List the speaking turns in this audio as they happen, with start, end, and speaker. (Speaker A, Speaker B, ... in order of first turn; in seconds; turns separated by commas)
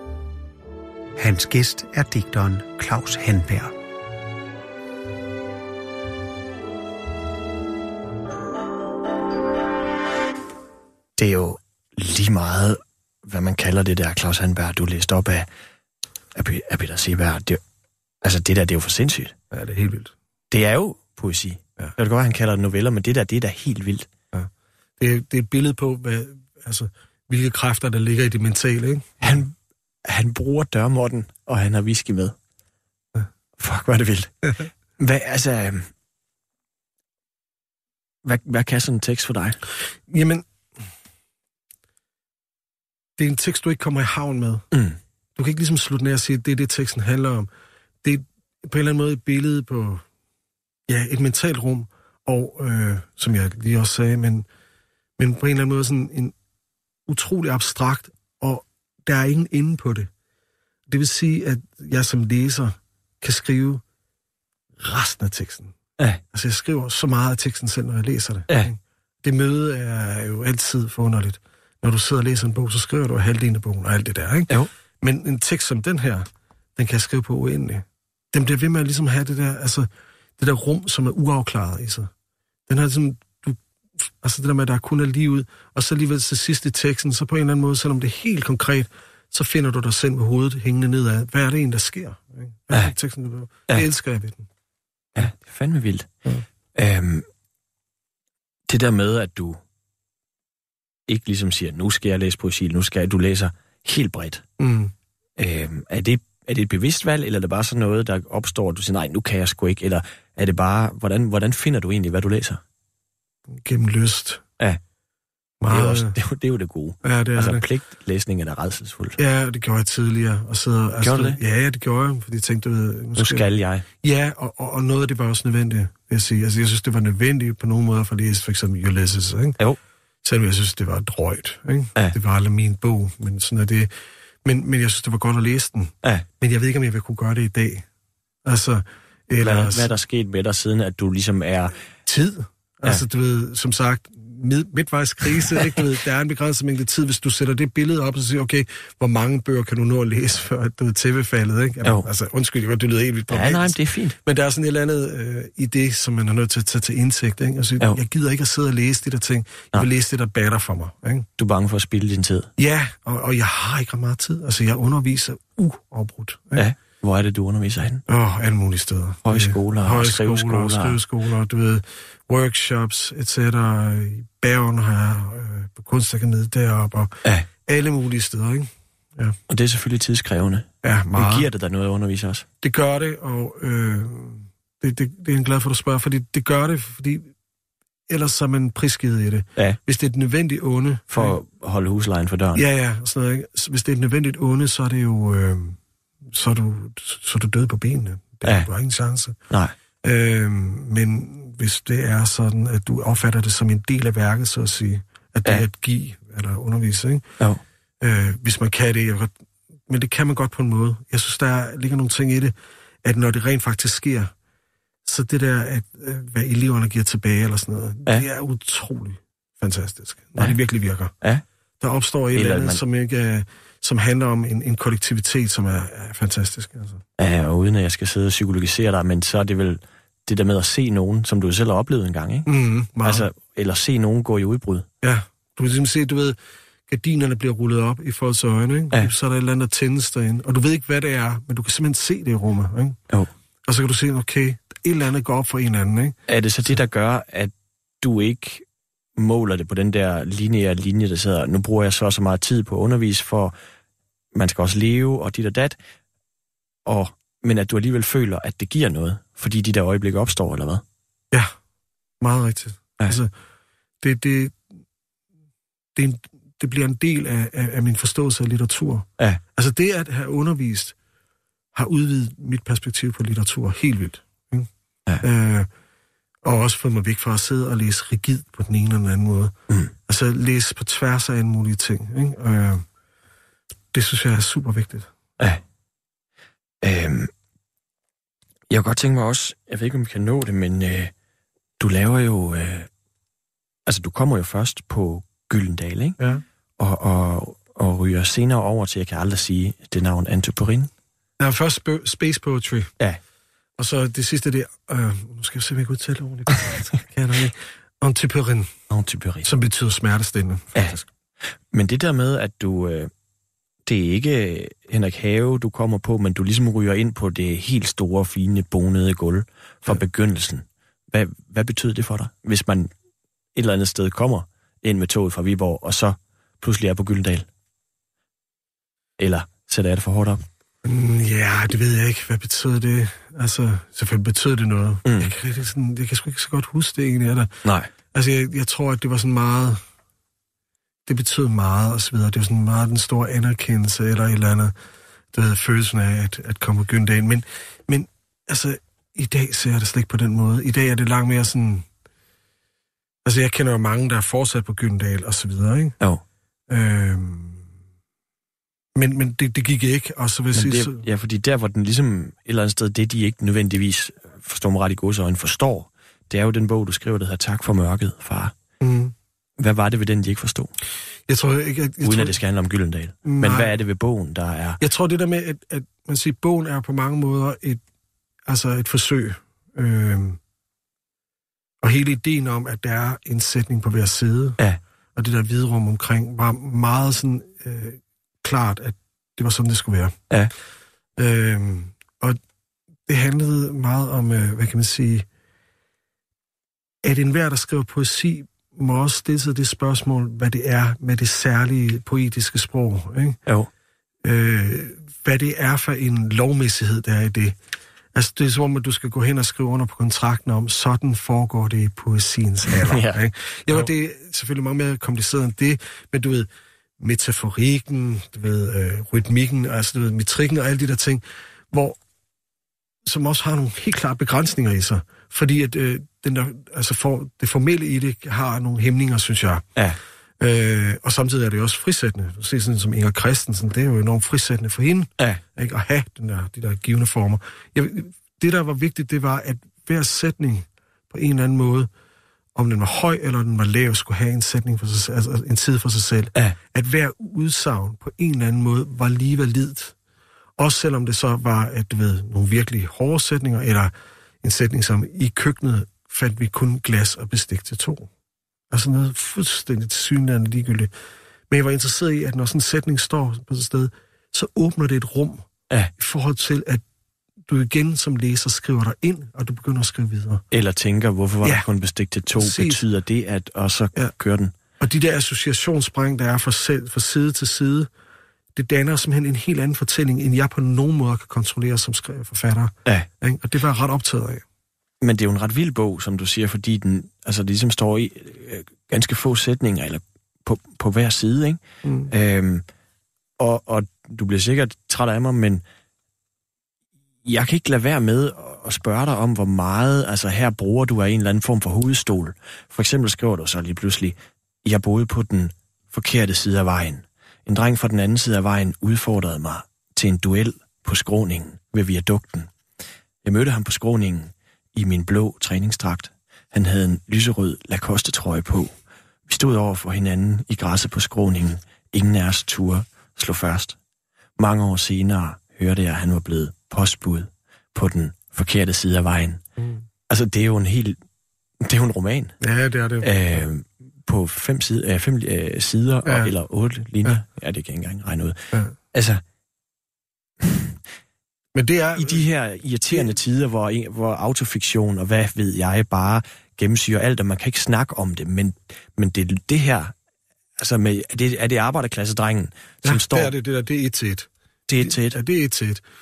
Speaker A: 1.1-3.7, Speaker B: 11.2-15.5, Speaker B: 16.3-17.6, Speaker B: 18.2-19.3, Speaker C: 19.5-20.1, Speaker B: 20.5-24.1, Speaker C: 24.3-29.4, Speaker B: 29.2-32.4, Speaker B: 33.6-35.9, Speaker B: 38.2-39.6, Speaker C: 40.1-40.5, Speaker C: 43.2-44.6, Speaker B: 44.7-45.0, Speaker C: 45.4-47.5, Speaker C: 48.0-50.0, Speaker C: 50.9-54.5, Speaker C: 55.2-56.3, Speaker C: 57.1-60.1, Speaker C: 60.9-63.8, Speaker C: 64.8-65.7, Speaker C: 66.3-82.1, Speaker C: 82.7-94.5, Speaker B: 95.1-96.1, Speaker B: 96.7-97.3, Speaker B: 98.7-99.6, Speaker B: 101.1-104.4, Speaker C: 104.6-104.9, Speaker B: 105.4-112.6, Speaker C: 113.5-114.4, Speaker C: 115.6-116.2, Speaker B: 115.7-119.2, Speaker C: 117.0-117.7, Speaker C: 119.2-123.5, Speaker B: 121.0-121.4, Speaker B: 123.2-123.8, Speaker C: 124.0-129.6, Speaker C: 130.2-133.9, Speaker C: 134.4-137.8, Speaker C: 138.4-139.9, Speaker B: 139.4-141.8, Speaker C: 142.0-161.3, Speaker B: 153.3-154.2, Speaker B: 161.4-162.5, Speaker C: 162.6-166.7, Speaker B: 166.5-168.0, Speaker C: 168.1-179.3, Speaker B: 169.2-171.0, Speaker B: 179.5-182.4, Speaker C: 180.8-181.5, Speaker C: 182.6-187.3, Speaker C: 188.1-191.3, Speaker B: 191.1-192.6, Speaker C: 192.5-195.8, Speaker C: 196.3-199.3, Speaker B: 199.5-199.7, Speaker C: 200.0-207.2, Speaker C: 208.0-209.3, Speaker C: 209.9-214.3, Speaker C: 215.0-221.1, Speaker C: 221.8-227.0, Speaker B: 222.3-222.8, Speaker B: 227.2-232.5, Speaker C: 232.4-233.3, Speaker B: 233.0-234.8, Speaker C: 235.0-236.4, Speaker C: 236.9-243.0, Speaker C: 243.6-246.7, Speaker B: 246.3-248.6, Speaker B: 249.2-253.5, Speaker B: 254.3-255.8, Speaker B: 256.9-260.8, Speaker C: 262.2-263.3, Speaker C: 264.0-264.6, Speaker C: 265.9-270.9, Speaker C: 271.7-274.7, Speaker C: 275.2-275.7, Speaker C: 276.4-279.5, Speaker C: 280.1-282.8, Speaker C: 283.9-285.1, Speaker B: 286.8-287.3, Speaker B: 288.7-291.1, Speaker B: 291.8-292.9, Speaker B: 293.9-296.2, Speaker C: 296.2-296.4, Speaker B: 296.8-300.9, Speaker C: 301.4-302.9, Speaker C: 303.8-308.7, Speaker B: 308.9-309.5, Speaker C: 309.4-311.1, Speaker B: 311.7-313.1, Speaker B: 313.9-322.9, Speaker B: 323.5-327.4, Speaker B: 329.2-330.4, Speaker C: 330.8-337.5, Speaker B: 335.0-335.3, Speaker B: 337.6-337.9, Speaker C: 338.1-339.8, Speaker C: 341.1-344.7, Speaker C: 345.3-351.9, Speaker C: 353.2-355.9, Speaker C: 356.7-357.6, Speaker C: 358.9-361.0, Speaker B: 360.5-368.5, Speaker C: 368.8-369.1, Speaker B: 369.6-370.7, Speaker C: 371.3-372.4, Speaker B: 372.0-374.8, Speaker C: 373.2-373.7, Speaker C: 374.8-377.8, Speaker C: 378.5-380.4, Speaker C: 381.8-384.6, Speaker C: 385.1-390.2, Speaker C: 391.2-392.4, Speaker C: 393.1-395.3, Speaker C: 397.0-403.4, Speaker C: 404.2-407.6, Speaker C: 408.1-416.5, Speaker B: 412.7-413.9, Speaker C: 417.0-422.0, Speaker C: 423.0-429.6, Speaker C: 430.4-441.9, Speaker C: 442.5-449.9, Speaker C: 450.6-458.1, Speaker C: 458.7-460.9, Speaker C: 461.5-465.4, Speaker C: 466.0-466.8, Speaker C: 467.4-470.4, Speaker B: 470.5-474.5, Speaker C: 472.4-472.8, Speaker C: 474.8-477.9, Speaker C: 478.5-484.4, Speaker B: 485.0-492.6, Speaker C: 491.8-492.1, Speaker B: 493.4-495.6, Speaker B: 497.2-512.5, Speaker B: 513.2-518.7, Speaker B: 519.3-523.8, Speaker B: 524.4-529.4, Speaker C: 529.6-529.8, Speaker B: 530.1-531.0, Speaker B: 531.6-532.4, Speaker C: 532.4-533.1, Speaker B: 533.0-539.2, Speaker C: 536.0-536.3, Speaker B: 540.4-540.7, Speaker C: 541.5-542.2, Speaker B: 542.0-549.9, Speaker B: 550.6-553.3, Speaker C: 552.8-555.8, Speaker B: 554.7-555.2